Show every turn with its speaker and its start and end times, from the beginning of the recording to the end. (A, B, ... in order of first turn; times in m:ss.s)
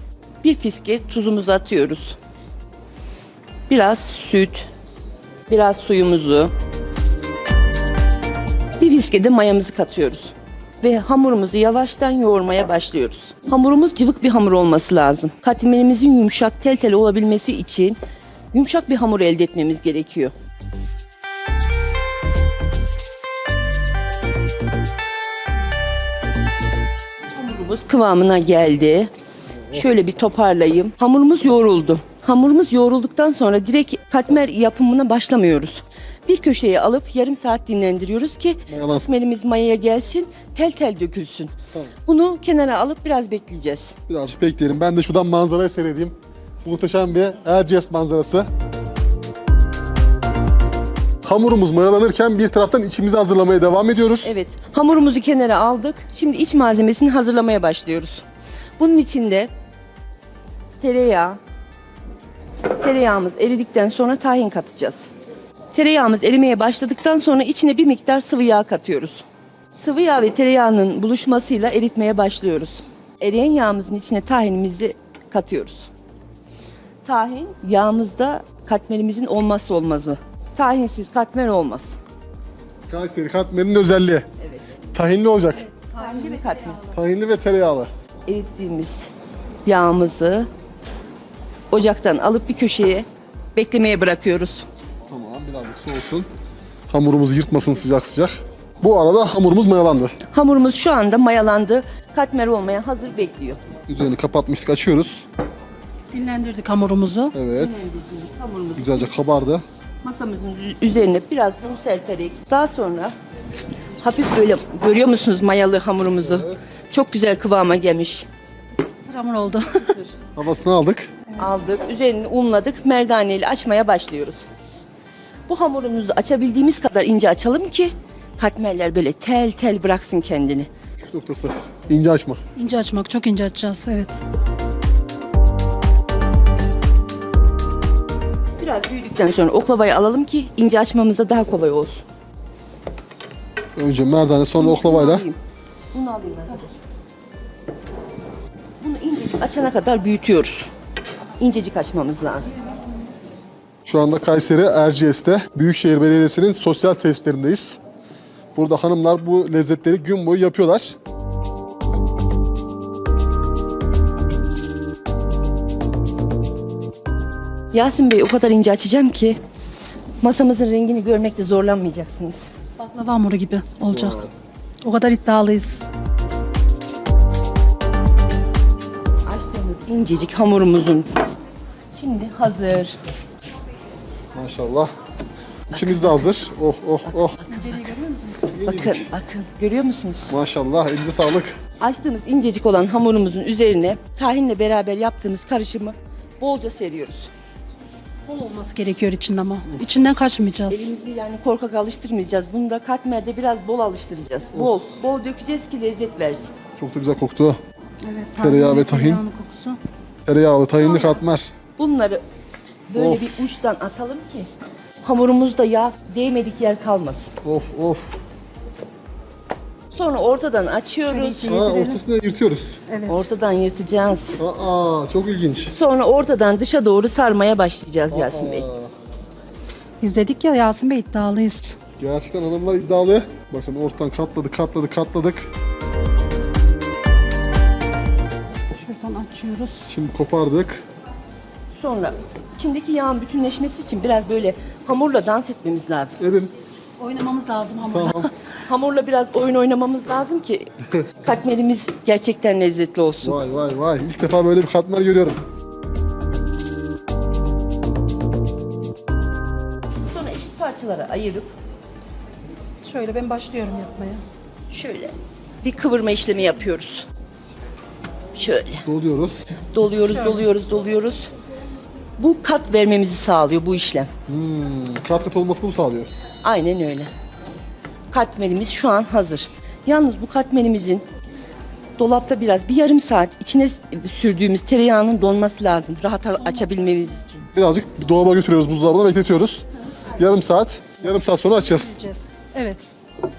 0:00.4-0:02.2 A
0:03.7-0:04.7 A
0:05.5-0:06.5 A
0:08.8-0:18.0 A
0:18.5-0:20.3 A
0:27.4-0:29.1 A
0:29.7-0:41.5 A
0:38.7-0:39.1 B
0:42.1-0:44.0 A
0:44.1-0:48.5 B
0:51.2-0:54.3 B
0:54.2-0:58.2 A
0:58.8-0:59.5 A
1:00.8-1:01.4 A
1:02.8-1:05.1 A
1:05.7-1:15.9 A
1:17.0-1:22.0 A
1:22.9-1:24.3 B
1:24.4-1:24.8 A
1:24.9-1:25.7 B
1:25.6-1:27.0 C
1:26.0-1:26.8 A
1:26.9-1:27.9 B
1:28.3-1:29.1 A
1:29.6-1:30.5 A
1:31.7-1:34.7 A
1:35.1-1:36.3 B
1:36.9-1:40.2 B
1:40.3-1:43.6 A
1:43.9-1:45.3 B
1:46.1-1:47.4 C
1:47.3-1:47.9 B
1:47.5-1:49.1 A
1:48.8-1:49.6 B
1:50.0-1:53.1 A
1:54.0-1:58.3 A
1:56.2-1:56.6 B
1:58.8-2:00.0 C
1:59.8-2:00.1 A
2:00.4-2:01.1 B
2:01.4-2:04.4 A
2:05.5-2:10.7 A
2:11.0-2:12.4 B
2:12.6-2:14.2 C
2:18.6-2:22.1 A
2:23.8-2:25.3 B
2:24.5-2:25.4 A
2:25.9-2:26.8 A
2:28.8-2:30.7 A
2:31.4-2:32.6 A
2:33.8-2:37.8 B
2:38.6-2:41.0 B
2:47.7-2:49.4 A
2:50.2-2:52.5 A
2:52.8-2:54.2 C
2:53.9-2:54.3 B
2:54.8-2:55.8 C
2:59.2-3:01.1 A
3:01.9-3:03.0 A
3:04.3-3:04.9 B
3:05.7-3:07.4 B
3:05.7-3:06.2 A
3:07.4-3:07.9 A
3:07.5-3:08.5 C
3:08.4-3:09.1 B
3:08.6-3:10.3 A
3:10.3-3:11.6 B
3:11.8-3:17.3 A
3:18.3-3:20.9 C
3:20.7-3:26.5 A
3:24.5-3:24.9 B
3:26.8-3:27.6 B
3:28.0-3:29.8 C
3:28.4-3:29.2 B
3:30.3-3:31.5 B
3:31.8-3:32.2 A
3:32.9-3:34.5 A
3:33.0-3:33.5 B
3:35.0-3:37.4 A
3:37.4-3:38.2 B
3:39.9-3:41.6 A
3:41.1-3:42.0 C
3:41.4-3:42.8 B
3:42.9-3:43.3 C
3:43.1-3:44.4 A
3:44.4-3:45.7 B
3:45.7-3:48.7 A
3:48.1-3:48.9 B
3:50.0-3:51.8 C
3:52.0-3:55.5 B
3:58.7-3:59.9 C
3:59.8-4:00.8 B
4:01.8-4:06.2 A
4:06.2-4:06.5 B
4:07.0-4:08.5 C
4:07.9-4:08.3 B
4:08.6-4:10.7 A
4:11.2-4:13.4 A
4:13.2-4:15.4 B
4:20.1-4:21.5 A
4:22.8-4:24.2 C
4:24.7-4:27.1 A
4:28.3-4:28.9 A
4:28.9-4:29.5 B
4:29.7-4:31.3 A
4:30.1-4:30.5 C
4:32.2-4:34.1 A
4:34.3-4:36.1 B
4:36.4-4:37.1 A
4:38.1-4:41.0 A
4:42.0-4:47.5 A
4:46.4-4:47.2 C
4:47.5-4:52.0 B
4:51.6-4:52.9 C